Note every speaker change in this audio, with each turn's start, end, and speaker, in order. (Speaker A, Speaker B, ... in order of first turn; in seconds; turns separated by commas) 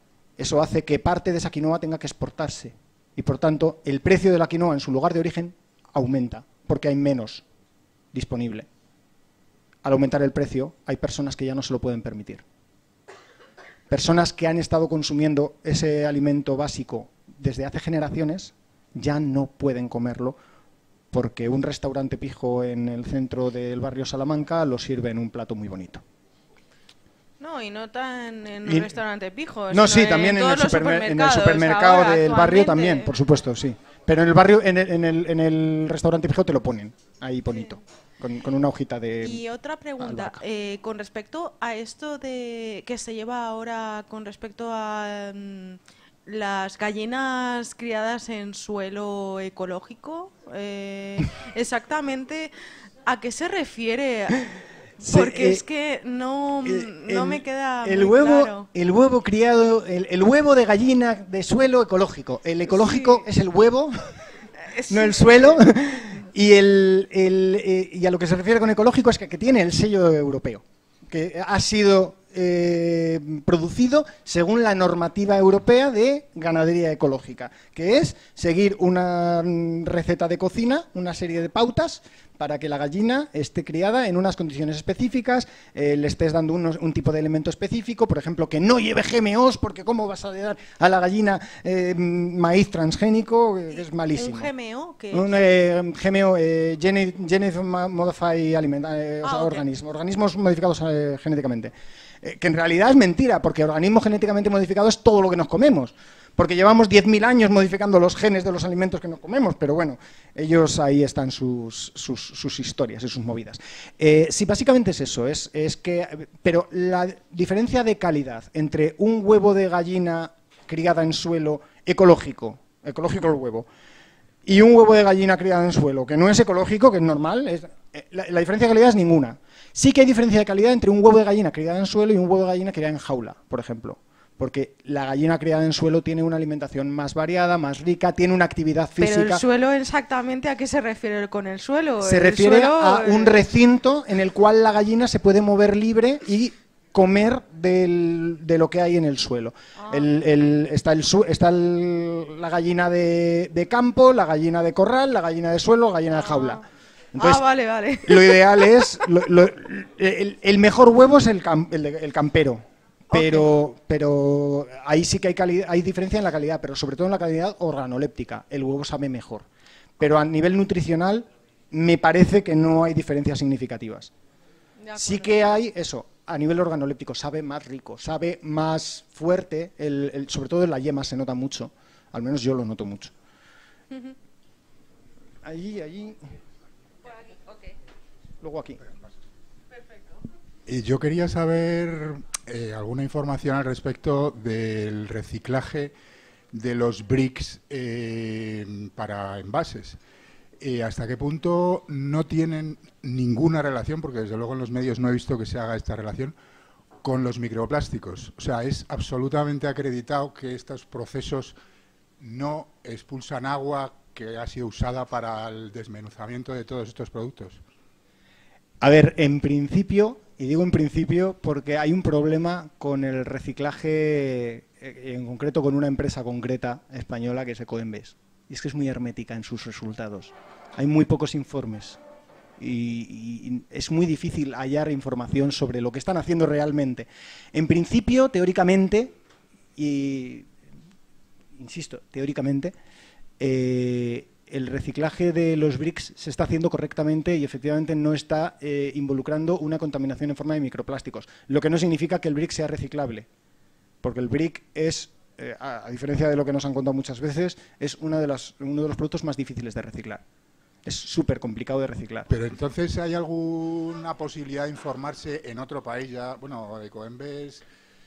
Speaker A: 0.4-7.4, Speaker A: 8.1-8.7, Speaker A: 9.8-12.4, Speaker A: 13.9-20.4, Speaker A: 21.1-26.0, Speaker B: 27.4-33.1, Speaker A: 28.6-29.0, Speaker A: 29.7-39.4, Speaker B: 39.2-52.5, Speaker A: 40.0-40.4, Speaker B: 53.1-54.5, Speaker A: 55.0-55.6, Speaker B: 55.0-58.7, Speaker A: 56.6-64.0, Speaker B: 62.7-63.2, Speaker B: 64.6-65.6, Speaker A: 64.9-94.5, Speaker B: 94.2-95.3, Speaker A: 95.1-123.7, Speaker B: 99.2-99.6, Speaker A: 124.5-139.4, Speaker B: 139.0-143.4, Speaker A: 142.0-156.6, Speaker B: 156.2-156.6, Speaker A: 157.2-157.4, Speaker B: 157.2-158.9, Speaker A: 158.0-169.5, Speaker B: 163.1-163.5, Speaker A: 170.0-174.1, Speaker B: 174.8-175.6, Speaker A: 175.0-183.1, Speaker A: 185.4-186.2, Speaker A: 188.4-188.8, Speaker C: 190.7-195.9, Speaker C: 196.5-200.0, Speaker C: 200.6-206.3, Speaker C: 207.0-211.6, Speaker C: 212.2-217.6, Speaker A: 218.8-232.0, Speaker A: 232.6-239.1, Speaker A: 239.8-240.5, Speaker A: 241.6-242.7, Speaker A: 243.4-253.3, Speaker A: 254.0-260.2, Speaker A: 260.9-262.3, Speaker C: 262.3-267.6